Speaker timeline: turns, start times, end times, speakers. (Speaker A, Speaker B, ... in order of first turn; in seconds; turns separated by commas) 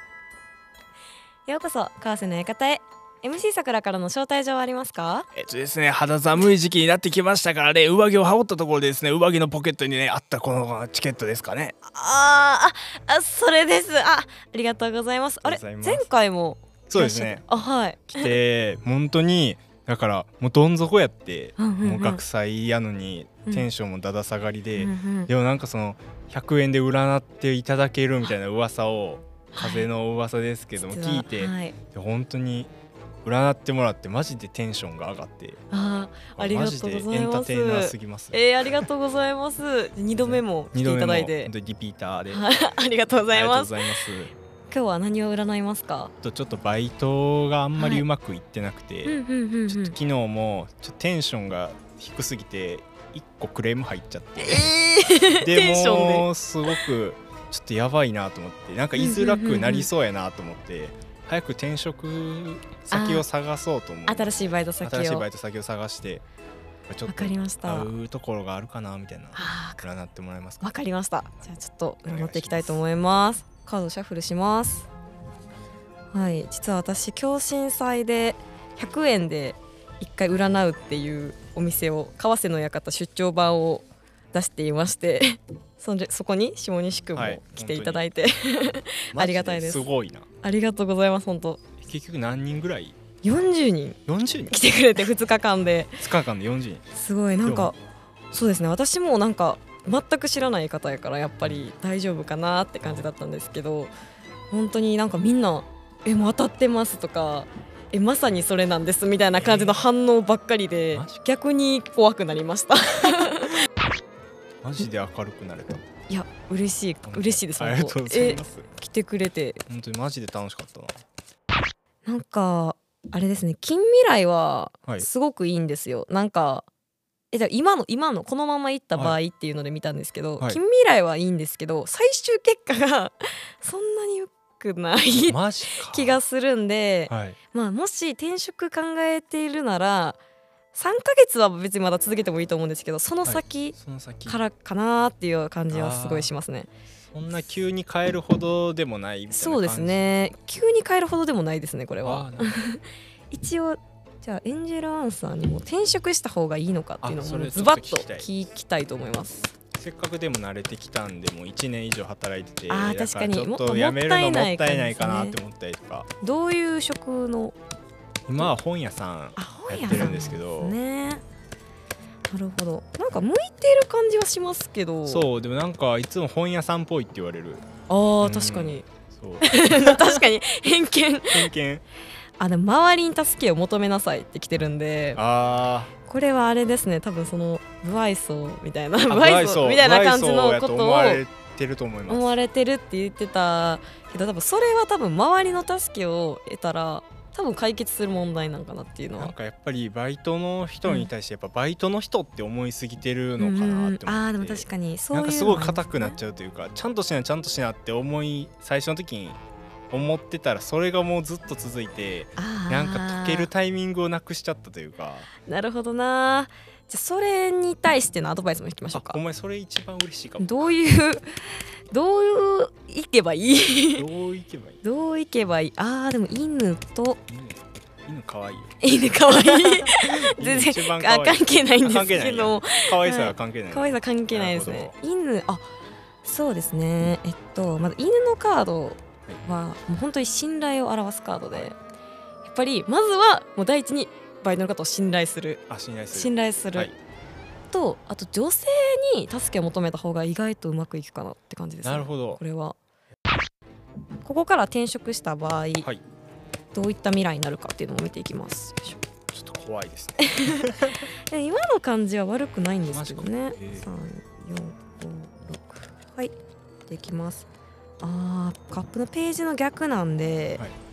Speaker A: 1.5-5.3, Speaker B: 5.3-11.8, Speaker A: 11.9-18.4, Speaker B: 15.4-16.1, Speaker B: 16.9-17.4, Speaker B: 18.1-32.7, Speaker A: 21.6-22.2, Speaker A: 24.8-25.3, Speaker A: 29.5-29.9, Speaker A: 30.8-31.8, Speaker B: 33.2-35.6, Speaker A: 35.7-41.5, Speaker B: 36.4-38.9, Speaker B: 40.2-42.5, Speaker A: 42.3-43.9, Speaker B: 43.3-44.3, Speaker A: 44.7-46.1, Speaker B: 46.2-49.1, Speaker A: 47.8-48.0, Speaker A: 49.0-50.0, Speaker B: 49.7-54.7, Speaker A: 54.4-56.3, Speaker B: 55.4-66.2, Speaker A: 59.0-59.9, Speaker A: 62.9-63.2, Speaker A: 64.1-65.2, Speaker B: 66.9-70.7, Speaker A: 67.1-67.9, Speaker A: 69.3-69.8, Speaker A: 70.6-74.9, Speaker B: 72.0-72.8, Speaker A: 76.1-89.9, Speaker B: 87.1-88.0, Speaker B: 89.1-90.3, Speaker A: 90.4-91.6, Speaker B: 91.8-93.0, Speaker A: 93.2-94.0, Speaker B: 94.1-94.6, Speaker A: 94.5-96.0, Speaker B: 96.0-96.8, Speaker A: 96.9-97.8, Speaker B: 97.4-97.7, Speaker A: 98.3-103.9, Speaker B: 102.8-103.1, Speaker A: 104.5-113.6, Speaker B: 109.3-109.8, Speaker B: 110.9-111.2, Speaker B: 114.6-115.8, Speaker A: 116.1-119.6, Speaker B: 117.0-118.7, Speaker B: 119.7-121.0, Speaker A: 122.0-126.7, Speaker A: 127.3-140.2, Speaker B: 135.2-136.2, Speaker B: 137.1-137.4, Speaker A: 140.7-146.7, Speaker B: 143.2-144.4, Speaker B: 145.7-146.3, Speaker B: 147.1-150.1, Speaker A: 149.3-159.5, Speaker B: 152.0-152.6, Speaker B: 157.0-158.3, Speaker B: 159.7-166.1, Speaker A: 162.7-165.4, Speaker A: 166.2-167.6, Speaker B: 168.3-170.8, Speaker A: 169.4-171.2, Speaker A: 172.3-175.3, Speaker B: 175.1-177.7, Speaker A: 177.9-178.8, Speaker B: 178.2-180.2, Speaker A: 179.4-181.5, Speaker B: 181.3-181.8, Speaker A: 182.4-185.2, Speaker B: 185.1-185.9, Speaker A: 186.1-191.2, Speaker B: 189.1-192.3, Speaker A: 192.1-199.3, Speaker B: 199.2-209.4, Speaker A: 200.8-201.1, Speaker A: 203.4-206.2, Speaker B: 209.9-215.3, Speaker A: 212.4-213.5, Speaker A: 215.4-219.2, Speaker B: 218.9-220.7, Speaker A: 220.4-224.1, Speaker B: 223.9-224.8, Speaker A: 224.8-227.2, Speaker B: 227.3-228.8, Speaker A: 228.8-235.7, Speaker B: 229.5-234.9, Speaker A: 236.2-241.8, Speaker A: 242.4-246.9, Speaker B: 245.7-246.9, Speaker A: 247.7-252.8, Speaker B: 251.8-252.4, Speaker A: 254.2-255.9, Speaker A: 256.7-259.0, Speaker B: 259.3-261.0, Speaker A: 260.2-260.7, Speaker A: 261.3-266.3, Speaker B: 262.9-263.9, Speaker A: 266.9-267.5, Speaker A: 268.0-270.6